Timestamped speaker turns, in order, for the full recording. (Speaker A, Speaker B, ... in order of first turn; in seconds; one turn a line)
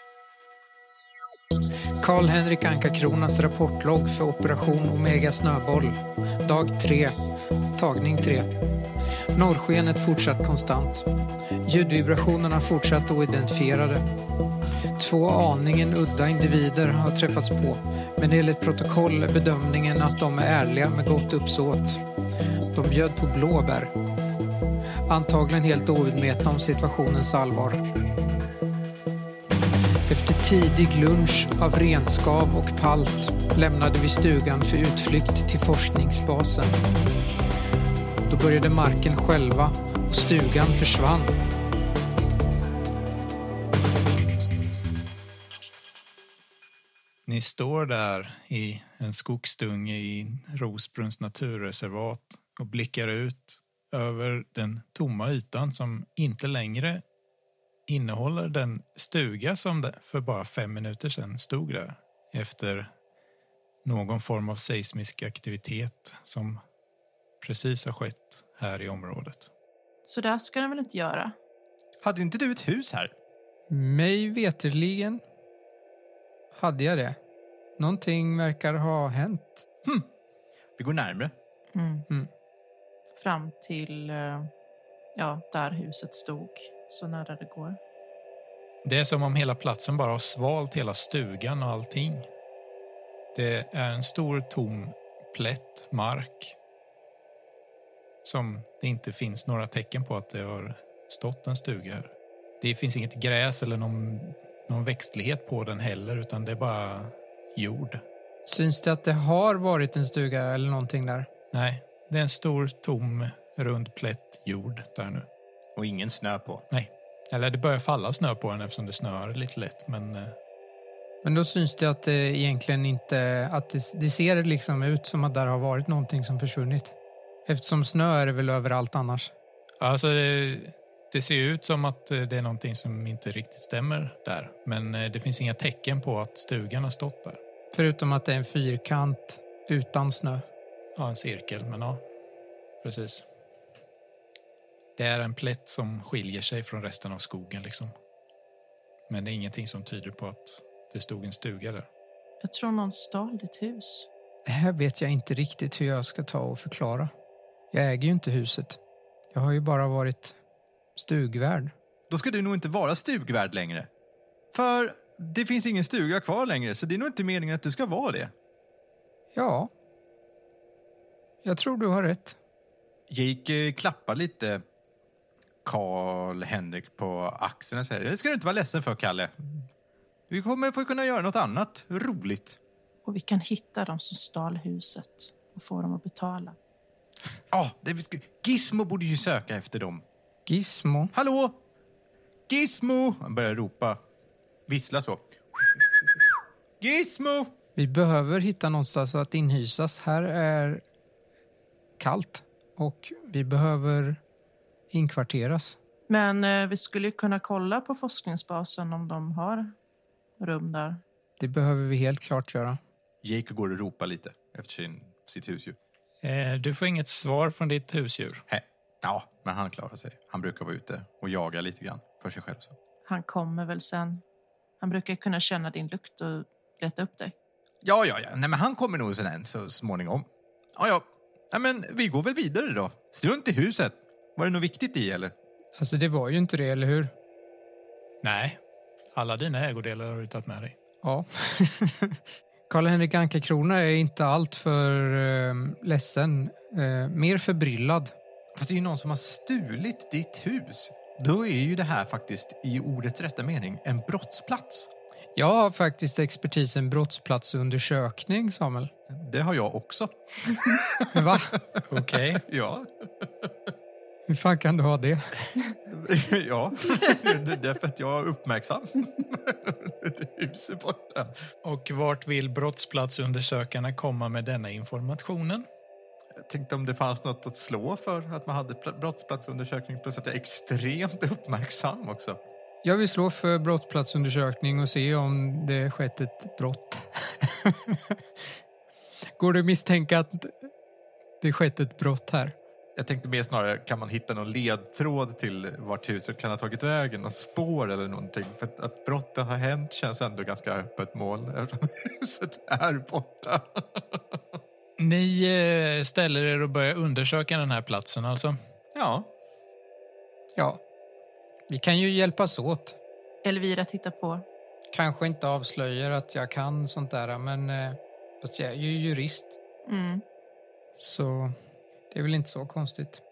Speaker A: 2.0-7.2
Speaker A: 7.8-8.5
Speaker A: 9.3-11.1
Speaker A: 11.7-14.1
Speaker A: 14.9-22.0
Speaker A: 22.7-23.9
Speaker A: 25.1-27.8
Speaker A: 30.1-36.8
Speaker A: 38.3-41.3
Speaker B: 47.3-57.0
Speaker B: 57.9-62.9
Speaker B: 63.9-66.6
Speaker B: 67.4-69.5
Speaker C: 70.0-71.3
Speaker D: 72.0-73.1
Speaker A: 73.7-75.2
Speaker A: 76.5-77.2
Speaker A: 77.8-79.6
Speaker D: 80.8-81.3
Speaker C: 81.8-82.1
Speaker C: 83.1-84.5
Speaker C: 85.2-87.8
Speaker B: 88.8-92.3
Speaker B: 93.3-96.5
Speaker B: 98.2-108.0
Speaker A: 108.5-111.3
Speaker B: 111.5-115.3
Speaker D: 115.8-116.6
Speaker B: 116.7-120.3
Speaker A: 121.2-126.9
Speaker A: 127.5-129.3
Speaker B: 129.8-137.4
Speaker A: 137.7-140.4
Speaker B: 141.0-142.0
Speaker B: 142.8-143.2
Speaker B: 145.0-147.9
Speaker B: 149.1-151.9
Speaker C: 152.4-154.1
Speaker A: 154.5-157.1
Speaker A: 157.7-158.8
Speaker A: 159.3-160.3
Speaker A: 161.0-161.7
Speaker D: 162.1-163.9
Speaker D: 164.5-168.3
Speaker A: 169.3-169.7
Speaker A: 171.4-172.4
Speaker D: 173.1-174.6
Speaker D: 175.7-179.6
Speaker D: 180.3-182.6
Speaker C: 183.1-186.6
Speaker D: 187.5-190.0
Speaker A: 190.5-191.1
Speaker D: 191.1-191.6
Speaker D: 192.5-194.0
Speaker D: 194.7-197.5
Speaker A: 197.8-200.8
Speaker A: 202.0-204.2
Speaker A: 204.9-205.8
Speaker C: 206.1-209.8
Speaker C: 210.4-211.0
Speaker A: 211.4-212.8
Speaker D: 213.2-215.8
Speaker B: 216.2-218.4
Speaker D: 218.5-222.7
Speaker C: 223.1-224.2
Speaker C: 224.8-227.3
Speaker D: 227.8-235.3
Speaker A: 235.8-237.1
Speaker B: 238.2-238.6
Speaker B: 239.1-240.8
Speaker A: 241.0-242.2
Speaker A: 242.7-248.1
Speaker D: 248.6-254.9
Speaker A: 255.4-258.9
Speaker D: 259.1-261.8
Speaker A: 261.1-261.6
Speaker B: 261.9-262.4
Speaker D: 262.4-263.5
Speaker A: 264.3-265.3
Speaker D: 265.9-271.4
Speaker B: 271.6-275.6
Speaker D: 276.4-282.4
Speaker A: 282.8-288.1
Speaker A: 289.4-290.7
Speaker A: 291.4-292.6
Speaker D: 293.0-304.6
Speaker B: 305.0-308.6
Speaker D: 308.9-309.3
Speaker A: 311.7-313.0
Speaker C: 313.4-314.4
Speaker A: 314.9-319.5
Speaker C: 319.9-320.2
Speaker A: 321.0-321.6
Speaker A: 322.1-323.2